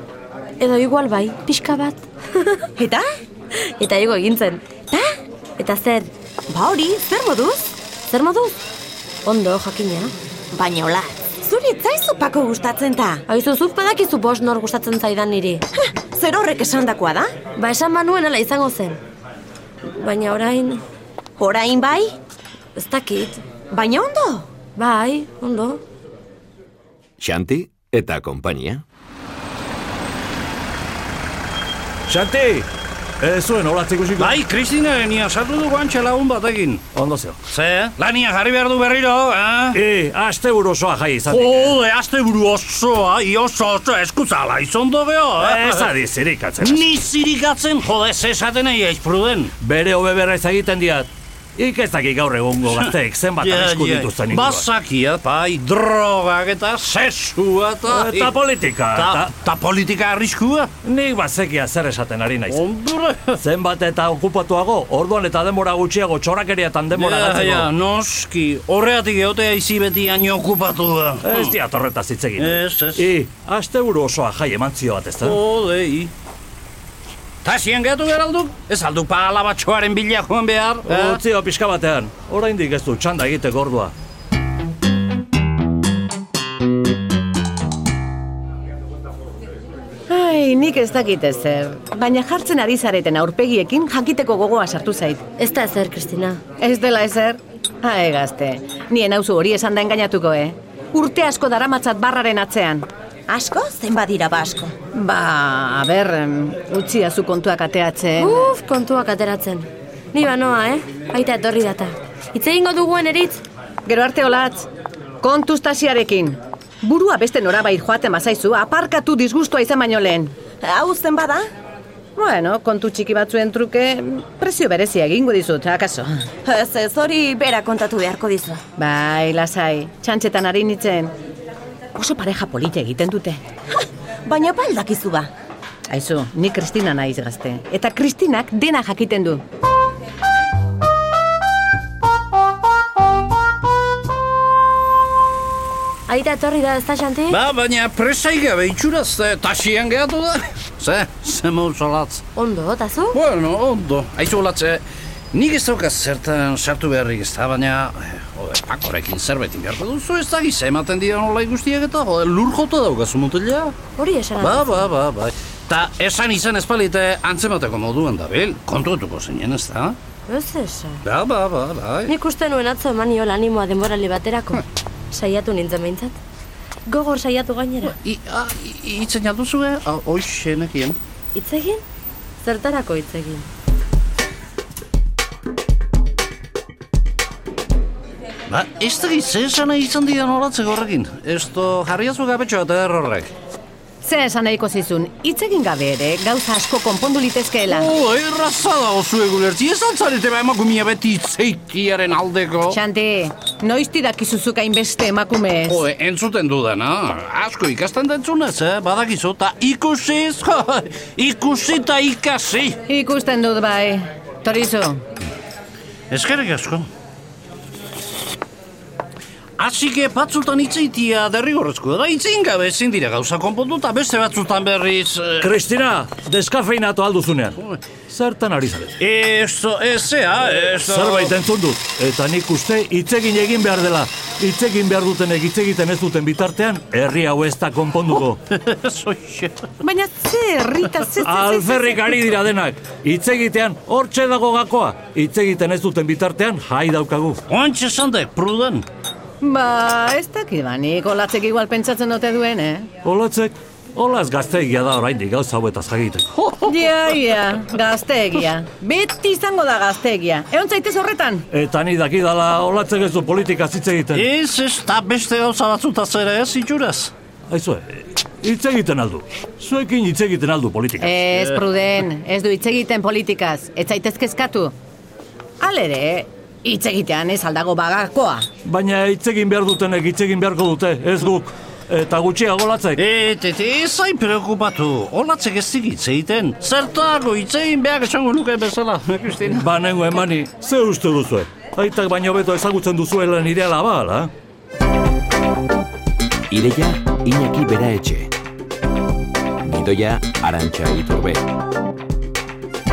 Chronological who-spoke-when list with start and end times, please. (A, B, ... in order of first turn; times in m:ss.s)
0:00.6-0:02.6 A
0:02.8-0:03.1 B
0:03.6-0:04.7 A
0:04.9-0:05.2 B
0:05.6-0:06.1 A
0:06.5-0:07.7 B
0:08.1-0:08.6 A
0:09.2-0:10.1 A
0:10.5-0:13.2 B
0:13.3-0:15.6 A
0:15.8-0:17.4 B
0:17.6-0:19.0 A
0:19.9-0:20.8 A
0:21.4-0:22.2 B
0:22.8-0:23.4 A
0:23.7-0:24.5 B
0:24.7-0:25.8 A
0:27.2-0:28.8 C
0:32.1-0:32.7 D
0:33.2-0:34.4 D
0:34.2-0:36.8 E
0:36.9-0:37.4 D
0:37.4-0:39.8 E
0:39.7-0:41.7 D
0:41.3-0:45.9 E
0:45.4-0:46.8 D
0:46.6-0:49.5 E
0:49.6-0:54.6 D
0:52.7-0:58.4 E
0:57.9-0:59.3 D
0:58.9-1:00.7 E
1:00.8-1:02.6 D
1:02.5-1:03.4 E
1:03.4-1:07.7 D
1:06.9-1:11.6 E
1:11.2-1:15.3 D
1:12.4-1:13.1 E
1:15.2-1:16.1 E
1:17.4-1:21.2 E
1:20.9-1:23.9 D
1:30.1-1:35.2 F
1:35.4-1:36.4 A
1:36.6-1:42.8 F
1:43.3-1:44.7 B
1:44.9-1:48.5 F
1:48.2-1:53.4 A
1:53.8-1:54.7 F
1:55.2-2:00.3 F
2:00.6-2:01.5 B
2:02.2-2:06.3 F
2:06.4-2:08.6 B
2:08.8-2:11.1 F
2:11.9-2:13.4 F
2:13.7-2:15.3 B
2:15.9-2:19.4 F
2:26.1-2:27.4 A
2:27.3-2:32.2 E
2:32.3-2:33.2 A
2:33.1-2:43.8 E
2:43.9-2:44.9 A
2:44.4-2:50.0 E
2:50.3-2:51.0 A
2:51.0-2:52.1 E
2:52.1-2:56.2 A
2:56.9-2:57.9 A
2:57.8-3:01.0 E
3:01.3-3:01.8 A
3:02.4-3:03.5 A
3:08.5-3:13.3 E
3:14.0-3:17.9 F
3:17.7-3:22.8 E
3:22.7-3:25.8 F
3:25.7-3:32.8 E
3:32.9-3:35.0 F
3:36.1-3:36.8 E
3:39.6-3:45.6 E
3:45.4-3:47.6 D
3:48.1-3:48.9 D
3:49.0-3:51.4 E
3:50.9-3:58.4 D
3:58.1-3:59.7 E
3:59.8-4:02.0 F
4:01.2-4:07.4 D
4:07.5-4:08.8 E
4:09.4-4:12.9 F
4:13.0-4:16.3 D
4:16.4-4:16.7 E
4:16.6-4:21.5 F
4:21.5-4:24.2 D
4:24.1-4:27.1 E
4:27.5-4:31.2 D
4:31.0-4:34.7 F
4:35.6-4:38.4 F
4:38.6-4:43.0 D
4:43.0-4:49.7 E
4:49.6-4:54.3 D
4:56.5-4:58.3 C
4:59.6-5:01.5 C